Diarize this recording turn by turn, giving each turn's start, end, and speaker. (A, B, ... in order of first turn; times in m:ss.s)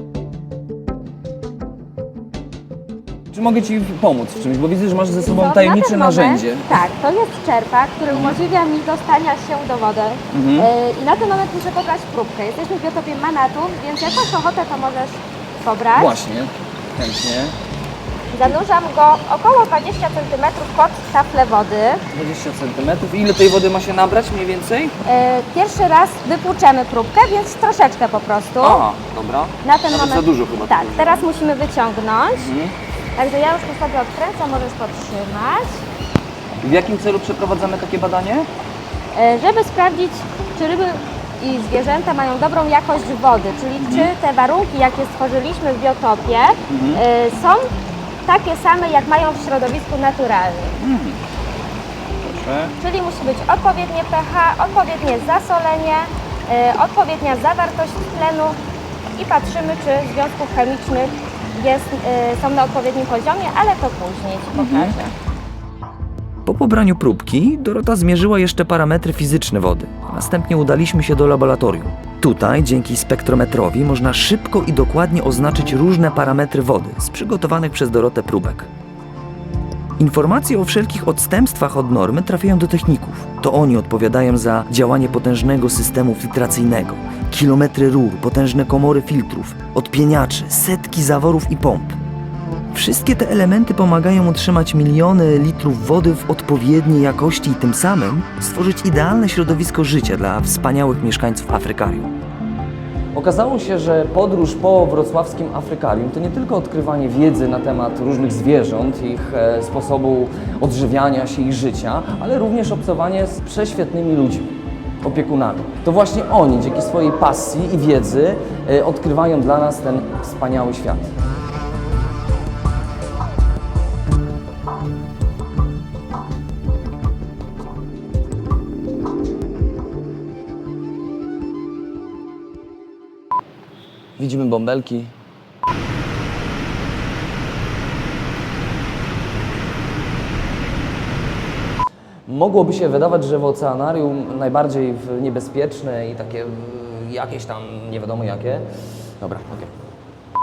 0:03.3-0:06.8 A
0:05.2-0:16.2 B
0:08.1-0:08.4 A
0:10.3-0:10.7 A
0:15.9-0:17.5 A
0:18.3-0:22.0 B
0:22.1-0:25.0 A
0:25.0-0:28.8 B
0:28.6-0:31.3 A
0:29.6-0:32.5 B
0:32.3-0:32.7 A
0:33.2-0:35.8 B
0:36.6-0:38.5 A
0:39.1-0:47.7 B
0:43.8-0:44.1 A
0:46.7-0:47.0 A
0:48.3-0:50.8 B
0:50.8-0:51.2 A
0:52.2-0:52.7 A
0:52.8-0:58.6 B
0:59.2-1:05.1 B
1:04.6-1:04.9 C
1:06.5-1:18.7 C
1:20.0-1:32.0 C
1:32.7-1:42.1 C
1:43.2-2:01.1 A
2:14.2-2:15.1 A
2:22.3-2:28.7 A
2:29.2-2:29.7 A